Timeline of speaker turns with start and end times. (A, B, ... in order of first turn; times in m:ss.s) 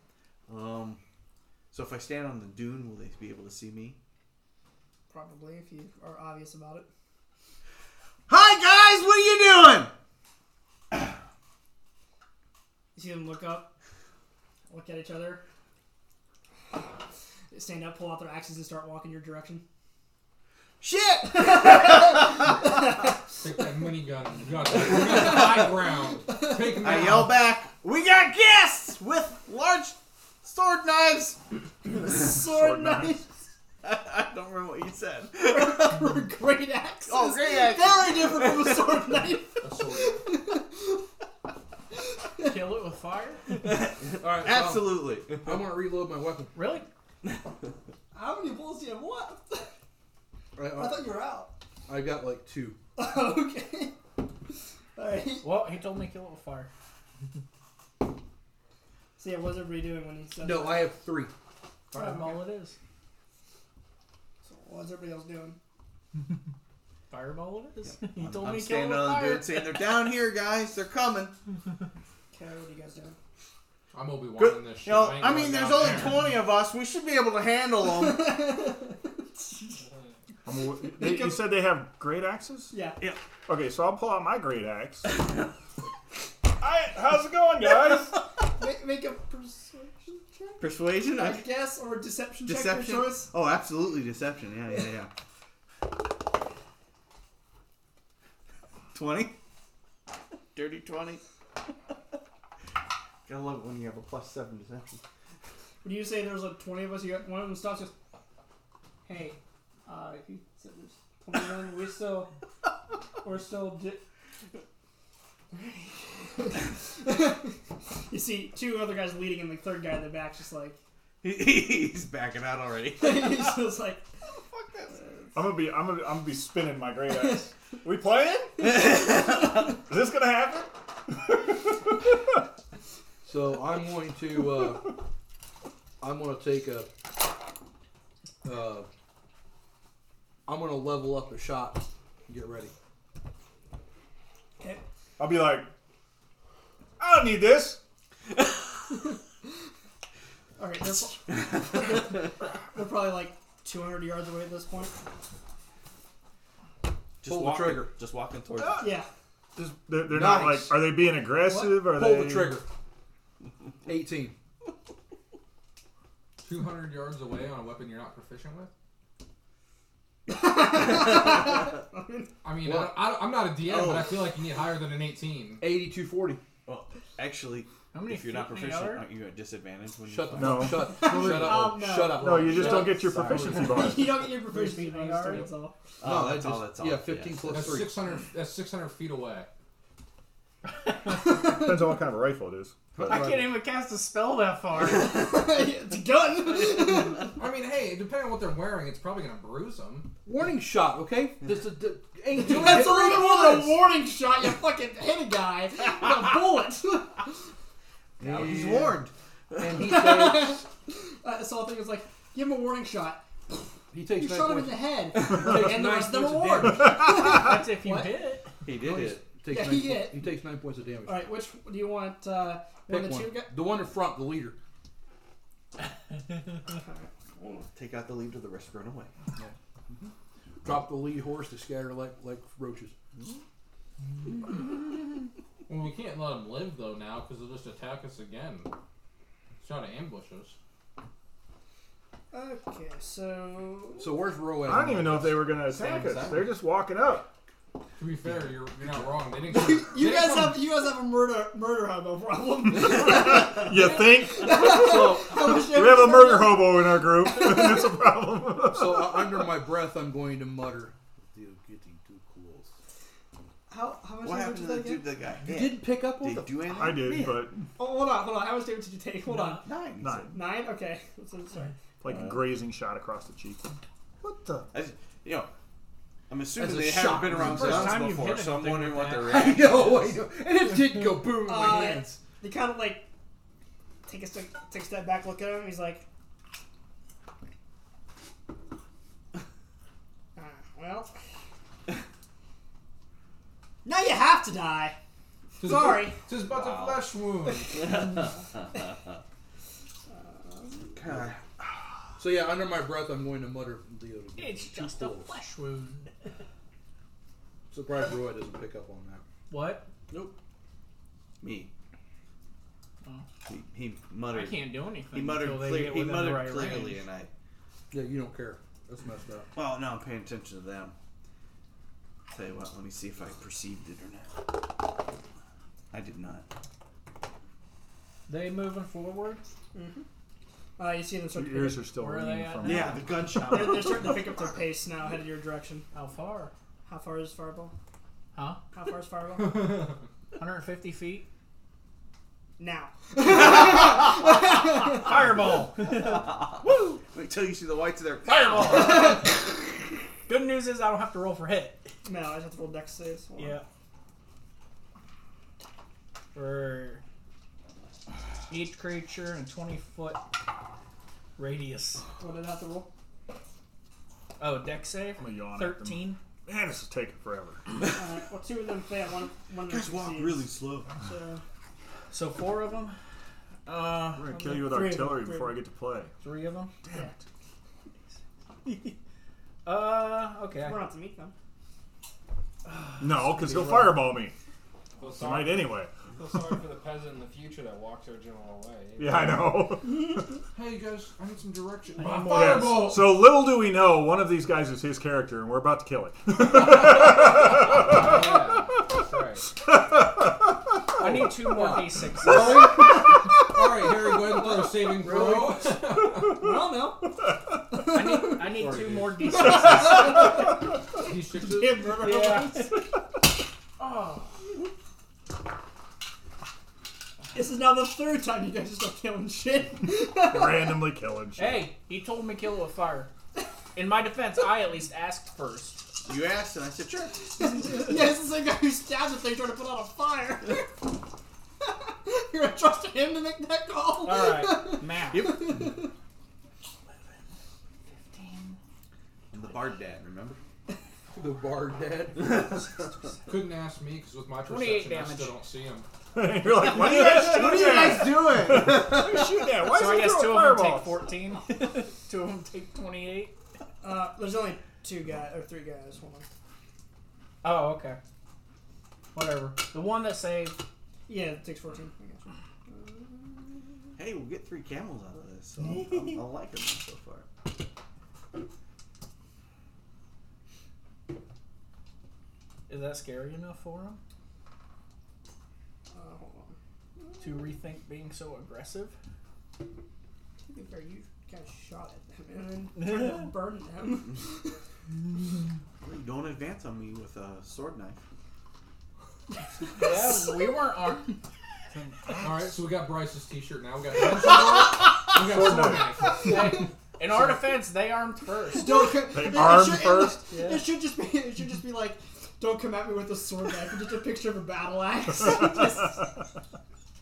0:00.5-0:01.0 A
0:01.7-0:04.0 A
0:05.1-0:06.9 B
0:08.3-0:09.9 A
0:13.0-0:13.7 B
0:14.7-0:15.4 B
0:17.5-0:19.6 B
0:20.8-0:22.6 A
0:21.3-0:23.1 B
0:23.4-0:27.4 C
0:24.8-0:25.6 A
0:26.3-0:26.8 B
0:26.8-0:31.4 A
0:31.9-0:33.3 B
0:32.2-0:33.2 D
0:33.8-0:36.0 A
0:35.4-0:41.1 B
0:37.1-0:39.1 A
0:39.6-0:40.2 C
0:42.3-0:42.7 B
0:42.4-0:43.6 E
0:43.6-0:45.8 A
0:44.1-0:46.6 F
0:46.5-0:46.9 E
0:48.1-0:49.7 B
0:50.6-0:51.1 F
0:50.7-0:51.5 B
0:51.9-0:52.8 F
0:53.0-0:54.0 B
0:55.0-0:55.7 B
0:55.4-0:56.7 E
0:59.2-1:00.9 B
1:00.4-1:01.3 F
1:01.9-1:02.8 E
1:01.9-1:02.5 B
1:04.4-1:05.6 B
1:07.1-1:10.0 E
1:07.8-1:11.4 A
1:12.3-1:13.2 B
1:13.9-1:16.2 C
1:14.4-1:18.4 A
1:17.9-1:19.8 B
1:20.4-1:22.7 D
1:20.8-1:21.5 B
1:22.7-1:23.0 B
1:23.5-1:25.1 D
1:26.6-1:28.2 D
1:28.6-1:33.3 B
1:30.6-1:31.5 A
1:32.5-1:35.1 A
1:38.9-1:39.4 A
1:40.5-1:41.2 A
1:43.2-1:45.0 A
1:45.8-1:47.9 B
1:49.0-1:52.3 B
1:53.2-1:54.0 B
1:55.5-2:00.8 B
2:01.2-2:03.6 A
2:03.0-2:04.0 B
2:04.3-2:05.0 A
2:05.3-2:09.0 D
2:08.6-2:09.7 A
2:09.7-2:12.2 D
2:13.2-2:15.0 F
2:16.0-2:16.9 F
2:18.4-2:18.9 F
2:20.4-2:22.7 F
2:25.2-2:25.7 D
2:27.0-2:27.8 D
2:30.6-2:35.0 B
2:37.2-2:38.9 A
2:37.2-2:37.9 F
2:38.6-2:38.9 D
2:38.8-2:39.1 B
2:39.5-2:42.6 D
2:40.0-2:41.1 F
2:41.4-2:41.8 B
2:41.7-2:42.7 F
2:43.8-2:44.3 F
2:46.4-2:48.7 C
2:50.3-2:52.3 B
2:52.4-2:55.6 C
2:52.6-2:53.2 F
2:53.6-2:54.2 A
2:55.6-2:56.4 F
2:56.6-3:00.8 A
2:57.9-2:59.1 E
3:00.0-3:04.2 F
3:00.3-3:04.3 D
3:00.9-3:05.8 B
3:01.1-3:01.7 C
3:04.3-3:05.5 E
3:06.0-3:07.9 A
3:06.0-3:08.0 F
3:07.5-3:09.5 C
3:11.2-3:11.8 B
3:11.3-3:13.1 D
3:13.0-3:13.5 F
3:13.0-3:15.2 E
3:14.8-3:17.3 B
3:17.3-3:20.1 C
3:20.2-3:23.8 F
3:22.3-3:27.5 B
3:28.2-3:29.7 A
3:28.2-3:29.0 F
3:29.6-3:30.6 F
3:29.7-3:38.2 B
3:33.9-3:37.1 F
3:37.1-3:38.6 E
3:38.6-3:39.3 A
3:38.7-3:41.4 F
3:39.5-3:40.3 B
3:41.0-3:43.5 B
3:42.9-3:44.6 F
3:46.6-3:47.7 B
3:47.7-3:49.1 A
3:49.4-3:50.1 F
3:50.6-3:52.9 F
3:55.7-3:58.7 C
3:59.6-4:00.6 C
4:02.3-4:04.2 B
4:04.0-4:05.5 F
4:04.6-4:07.3 D
4:05.6-4:06.6 A
4:08.0-4:10.6 C
4:09.5-4:18.0 B
4:12.8-4:19.4 D
4:14.6-4:15.4 A
4:18.6-4:22.7 F
4:23.7-4:25.1 B
4:24.2-4:27.5 A
4:25.4-4:26.7 F
4:26.7-4:27.6 D
4:27.8-4:29.7 B
4:29.6-4:30.4 A
4:30.0-4:30.4 D
4:30.3-4:31.7 B
4:32.0-4:34.6 D
4:32.1-4:32.4 A
4:34.7-4:35.5 A
4:36.3-4:40.1 A
4:36.6-4:38.1 F
4:37.3-4:39.6 E
4:39.2-4:42.2 F
4:41.4-4:43.1 B
4:44.0-4:46.0 B
4:50.3-4:51.1 B
4:53.8-4:55.0 B
4:55.6-4:57.9 C
4:55.6-4:56.2 B
4:56.3-4:57.1 A
4:57.4-4:58.3 B
4:57.7-4:59.0 A
5:00.1-5:01.0 B
5:00.9-5:02.1 A
5:02.2-5:05.4 F
5:04.4-5:06.1 E
5:07.7-5:09.2 F
5:09.5-5:09.9 E
5:11.4-5:11.7 A
5:13.4-5:17.3 A
5:14.2-5:17.1 E
5:17.9-5:19.5 F
5:19.5-5:20.9 A
5:22.3-5:24.5 A
5:25.9-5:26.5 A
5:28.3-5:29.4 E
5:29.7-5:30.0 B
5:30.8-5:32.0 B
5:31.3-5:33.1 D
5:31.9-5:33.0 E
5:32.6-5:34.3 A
5:33.4-5:35.9 B
5:35.9-5:36.5 E
5:36.8-5:37.7 B
5:38.3-5:38.6 E
5:38.7-5:40.0 B
5:40.4-5:41.3 E
5:42.6-5:45.2 B
5:44.8-5:46.7 E
5:45.8-5:49.1 A
5:48.2-5:49.4 E
5:48.7-5:49.2 B
5:50.3-5:51.9 E
5:52.0-5:53.6 B
5:53.4-5:53.6 E
5:56.3-5:57.0 E
5:58.5-6:00.2 E
6:01.4-6:02.0 E
6:02.2-6:02.9 B
6:04.4-6:06.2 E
6:05.2-6:07.6 D
6:07.9-6:11.4 B
6:09.6-6:10.9 A
6:12.1-6:13.0 E
6:13.6-6:14.4 E
6:14.1-6:16.1 D
6:14.3-6:15.6 B
6:16.2-6:16.7 E
6:18.6-6:19.0 E
6:19.6-6:20.8 E
6:20.6-6:21.3 B
6:22.7-6:24.0 E
6:23.0-6:24.3 D
6:25.0-6:29.6 G
6:25.0-6:25.9 D
6:29.0-6:30.2 D
6:29.8-6:30.2 B
6:30.5-6:33.2 C
6:32.0-6:32.9 E
6:32.2-6:38.2 D
6:36.6-6:39.4 C
6:39.6-6:40.8 D
6:41.0-6:42.8 F
6:41.0-6:42.8 E
6:43.3-6:46.4 C
6:44.9-6:45.7 F
6:46.0-6:46.6 D
6:46.4-6:47.1 B
6:47.2-6:47.8 D
6:47.7-6:48.6 B
6:47.9-6:50.4 E
6:48.4-6:50.1 C
6:49.3-6:50.6 B
6:49.4-6:50.2 D
6:50.9-6:52.0 C
6:51.4-6:52.8 B
6:51.4-6:51.8 F
6:51.9-6:52.8 E
6:53.8-6:54.3 E
6:57.3-7:01.0 B
7:00.1-7:01.7 D
7:01.4-7:03.1 E
7:03.7-7:05.9 E
7:06.0-7:07.6 A
7:07.4-7:10.9 B
7:11.6-7:15.9 B
7:14.0-7:15.8 E
7:17.9-7:18.6 E
7:19.3-7:20.4 A
7:21.1-7:22.3 F
7:22.2-7:22.7 A
7:23.2-7:25.9 C
7:24.4-7:25.4 E
7:26.1-7:31.0 D
7:26.6-7:29.5 A
7:26.9-7:27.2 E
7:29.6-7:33.3 E
7:33.8-7:36.3 B
7:37.4-7:38.0 E
7:39.1-7:40.6 E
7:41.1-7:43.6 B
7:44.0-7:47.3 A
7:52.7-7:54.0 E
7:55.9-7:57.5 B
7:57.2-7:58.9 E
8:00.5-8:04.6 B
8:02.8-8:03.3 E
8:05.8-8:08.0 A
8:09.7-8:11.2 E
8:11.8-8:12.4 D
8:12.2-8:16.4 C
8:15.1-8:16.1 D
8:16.1-8:18.9 E
8:18.5-8:26.1 B
8:18.9-8:20.2 D
8:20.3-8:20.6 E
8:25.2-8:25.8 D